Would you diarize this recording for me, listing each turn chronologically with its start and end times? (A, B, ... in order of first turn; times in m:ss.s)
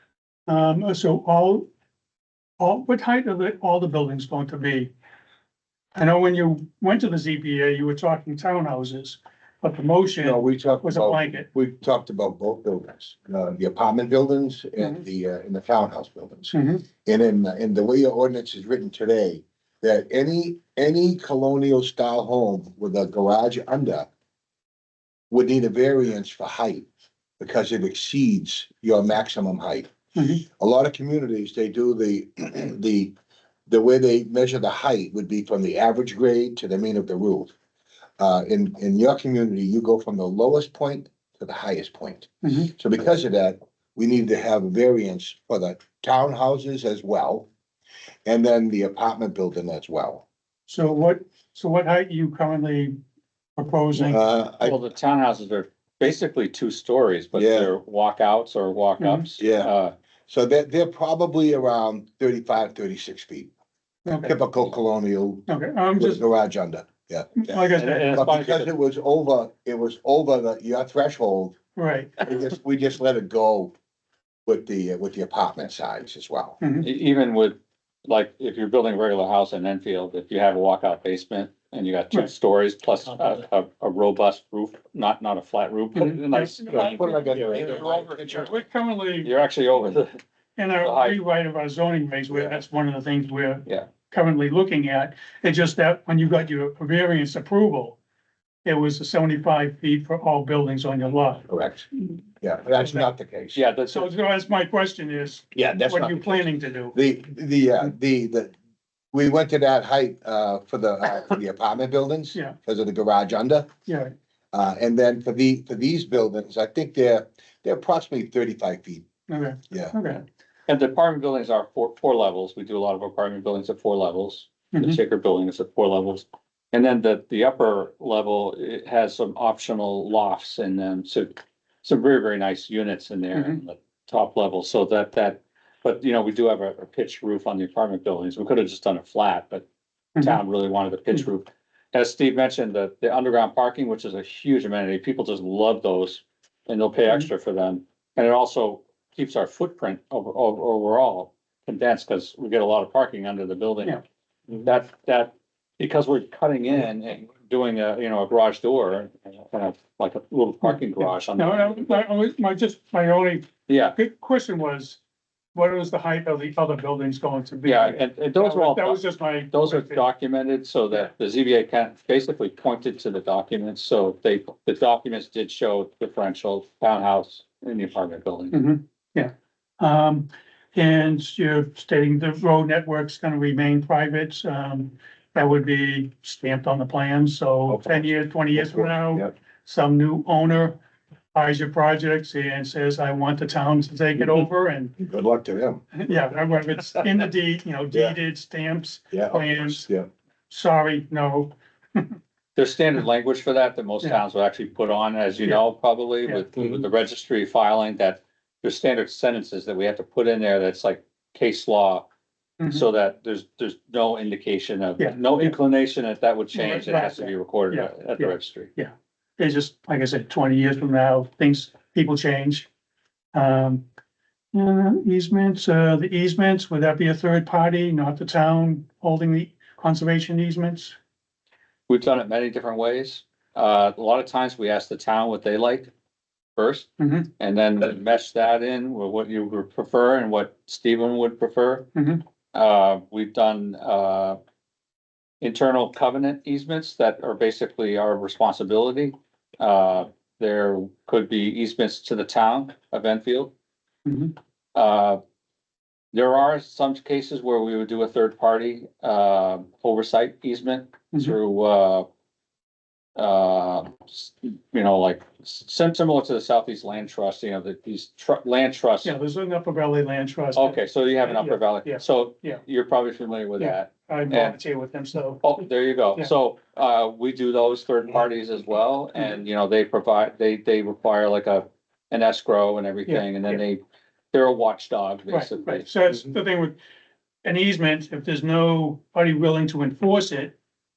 0:00.5-0:01.6 A
0:02.6-0:04.9 A
0:05.9-0:11.5 A
0:10.2-0:16.5 B
0:16.5-0:16.8 A
0:17.0-0:24.1 B
0:25.3-0:26.8 B
0:27.4-0:33.1 B
0:30.2-0:30.4 A
0:33.7-0:37.5 B
0:38.2-0:47.5 B
0:42.4-0:42.7 A
0:48.2-0:50.2 B
0:50.7-0:53.0 A
0:53.6-0:54.2 A
0:54.0-0:54.8 B
0:54.6-0:59.9 C
0:57.3-0:57.7 B
0:59.0-0:59.3 A
0:59.4-0:59.7 B
1:00.3-1:03.5 B
1:04.0-1:04.3 A
1:04.2-1:07.5 B
1:05.5-1:06.2 A
1:07.4-1:08.2 A
1:07.6-1:08.7 C
1:08.1-1:11.6 B
1:11.8-1:12.2 A
1:12.2-1:13.7 B
1:14.4-1:16.6 B
1:16.6-1:16.9 A
1:16.8-1:17.6 C
1:18.1-1:28.5 C
1:26.0-1:26.4 A
1:26.6-1:28.5 B
1:28.3-1:29.3 A
1:29.2-1:30.2 C
1:30.6-1:38.0 A
1:30.8-1:31.2 C
1:38.6-1:41.5 A
1:41.5-1:43.6 B
1:43.5-1:44.1 C
1:43.9-1:47.0 A
1:45.5-1:48.5 B
1:49.1-1:53.7 B
1:53.8-1:54.1 A
1:54.5-1:59.1 B
1:59.3-2:00.2 A
1:59.7-2:00.0 B
2:00.7-2:19.6 C
2:04.7-2:05.0 A
2:13.3-2:13.6 A
2:20.2-2:34.0 C
2:34.6-2:42.0 C
2:41.4-2:45.0 A
2:43.7-2:44.0 C
2:45.5-2:50.0 A
2:47.6-2:58.6 C
2:58.5-3:10.8 A
3:07.7-3:09.3 B
3:11.3-3:15.0 A
3:15.0-3:15.8 B
3:15.9-3:19.9 A
3:19.1-3:20.1 B
3:20.5-3:22.2 A
3:22.6-3:32.1 C
3:32.6-3:32.9 A
3:32.7-3:38.7 C
3:35.0-3:35.5 A
3:36.5-3:42.7 A
3:43.3-3:43.8 A
3:44.5-3:51.0 A
3:51.9-3:55.9 C
3:56.6-4:01.9 C
3:57.0-3:57.3 A
4:01.9-4:02.2 A
4:02.5-4:04.4 C
4:05.4-4:13.5 C
4:14.0-4:14.3 A
4:14.7-4:15.2 C
4:16.1-4:22.0 C
4:23.2-4:29.1 C
4:29.0-4:32.6 A
4:30.5-4:34.6 C
4:33.6-4:35.5 A
4:35.4-4:43.8 C
4:43.1-4:43.6 A
4:44.3-4:45.9 C
4:45.3-4:46.8 A
4:47.4-4:50.6 A